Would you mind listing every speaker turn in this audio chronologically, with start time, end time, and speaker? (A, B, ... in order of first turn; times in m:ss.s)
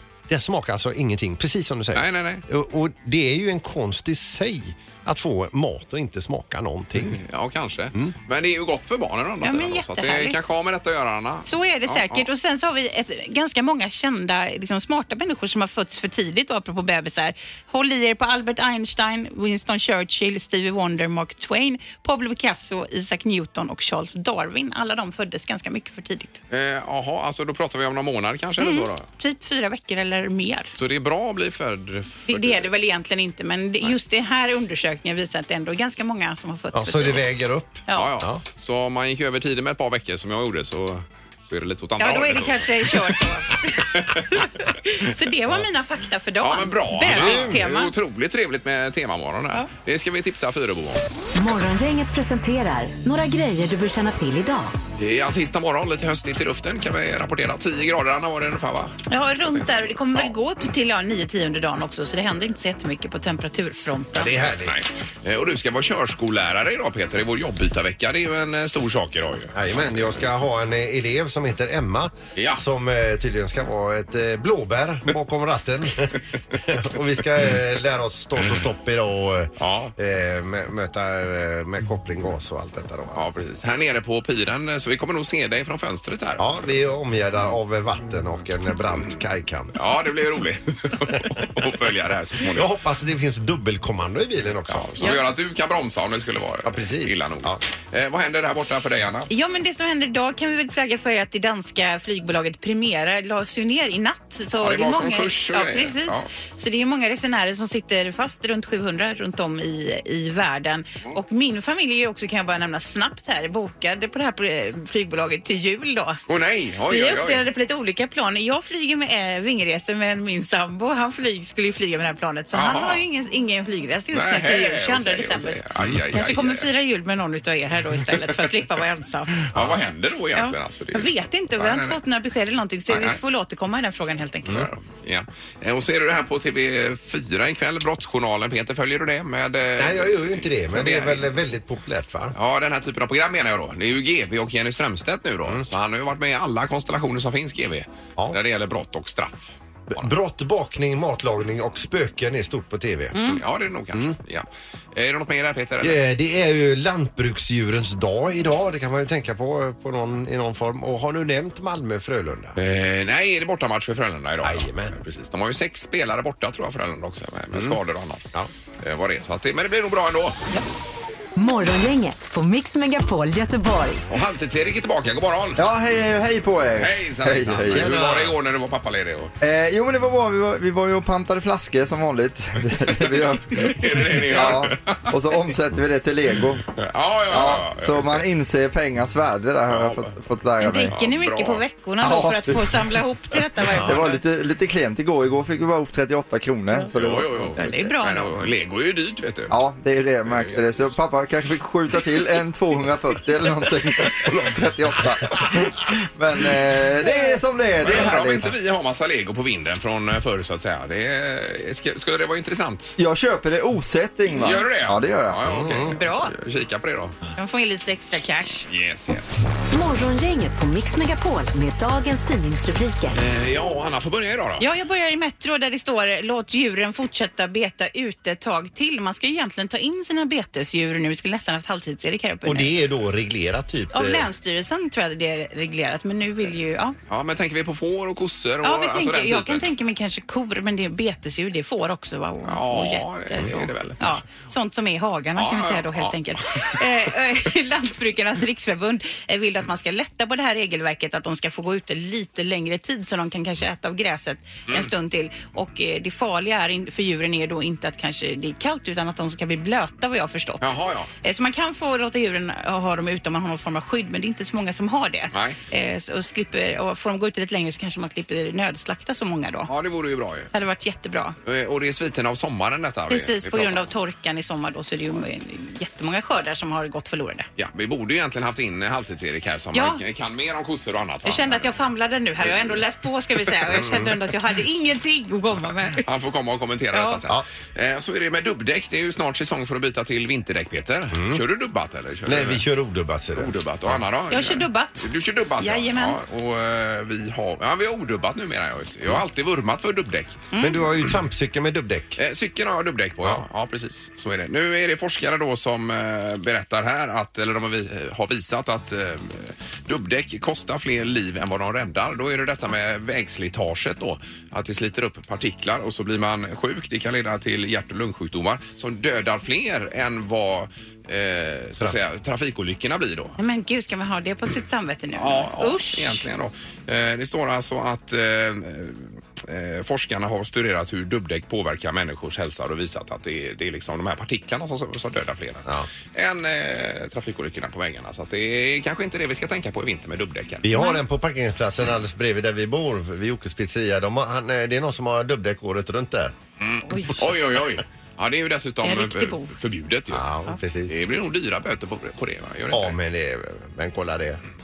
0:00.3-0:07.2 A
0:01.9-0:02.4 B
0:07.0-0:12.3 B
0:09.4-0:10.4 C
0:11.4-0:26.4 C
0:26.5-0:29.0 B
0:28.6-0:30.7 C
0:30.8-0:32.7 B
0:32.3-0:37.2 C
0:36.7-0:38.4 A
0:37.9-0:38.1 C
0:37.9-0:43.1 B
0:42.0-0:43.6 C
0:43.6-0:44.5 B
0:44.2-0:47.9 C
0:46.4-0:51.0 B
0:47.1-0:47.8 A
0:51.4-0:54.7 D
0:55.0-1:00.3 B
0:59.1-1:04.4 C
1:04.1-1:04.8 A
1:04.2-1:10.2 B
1:09.5-1:23.2 A
1:12.4-1:12.6 B
1:19.6-1:19.9 B
1:23.1-1:26.5 B
1:26.4-1:29.9 A
1:29.8-1:32.7 B
1:32.5-1:35.1 A
1:34.7-1:39.3 B
1:35.0-1:35.2 C
1:36.6-1:37.6 A
1:39.3-1:56.2 C
1:44.6-1:46.3 B
1:56.3-1:57.4 B
1:56.9-2:05.6 C
2:02.5-2:03.0 B
2:04.1-2:06.7 B
2:06.1-2:09.4 C
2:09.5-2:12.0 B
2:09.5-2:09.8 A
2:10.3-2:14.6 C
2:12.9-2:13.2 B
2:14.4-2:21.3 B
2:19.8-2:22.3 A
2:22.3-2:30.1 B
2:29.9-2:33.3 A
2:33.1-2:33.4 C
2:33.3-2:36.0 B
2:35.8-2:42.6 A
2:42.6-2:48.3 B
2:44.4-2:45.1 A
2:47.5-2:47.8 A
2:48.8-2:50.4 B
2:51.4-2:54.0 D
2:54.1-2:55.6 B
2:55.6-2:58.2 E
2:56.8-2:59.3 B
2:57.6-2:58.3 A
2:59.4-3:06.6 E
3:03.6-3:05.1 B
3:06.8-3:08.3 B
3:07.3-3:11.0 E
3:09.6-3:10.1 B
3:10.6-3:14.2 C
3:10.9-3:11.6 B
3:12.0-3:12.9 E
3:13.7-3:17.9 E
3:16.8-3:19.6 B
3:17.6-3:18.4 C
3:19.5-3:28.5 E
3:20.2-3:21.0 B
3:27.8-3:33.0 B
3:33.0-3:35.4 E
3:34.4-3:37.2 B
3:35.5-3:36.0 A
3:35.9-3:36.3 C
3:37.4-3:38.6 C
3:38.7-3:39.4 B
3:39.7-3:43.2 D
3:43.1-3:44.7 B
3:44.6-3:52.8 C
3:52.4-3:54.3 A
3:53.9-3:57.0 C
3:57.1-3:59.6 B
3:58.6-4:29.7 C
4:02.4-4:04.0 B
4:05.4-4:06.8 B
4:20.6-4:21.1 B
4:25.3-4:25.6 B
4:29.7-4:30.5 B
4:30.5-4:31.3 C
4:31.4-4:33.9 B
4:33.1-4:37.5 C
4:37.6-4:41.8 B
4:39.7-4:40.0 C
4:41.2-4:46.0 C
4:42.4-4:42.8 B
4:43.7-4:44.1 A
4:43.7-4:44.1 B
4:46.0-4:52.6 B
4:46.9-4:47.3 C
4:51.1-4:51.4 A
4:52.2-4:54.0 A
4:53.3-5:00.4 B
4:54.3-4:56.2 C
5:00.5-5:00.8 C
5:00.6-5:02.2 A
5:02.2-5:23.4 B
5:23.4-5:26.2 C
5:25.1-5:40.7 B
5:40.6-5:46.3 A
5:40.7-5:41.0 C
5:46.6-5:50.2 B
5:46.8-5:47.3 C
5:48.8-5:49.5 C
5:50.1-5:50.9 A
5:50.9-5:53.0 B
5:52.7-5:54.4 A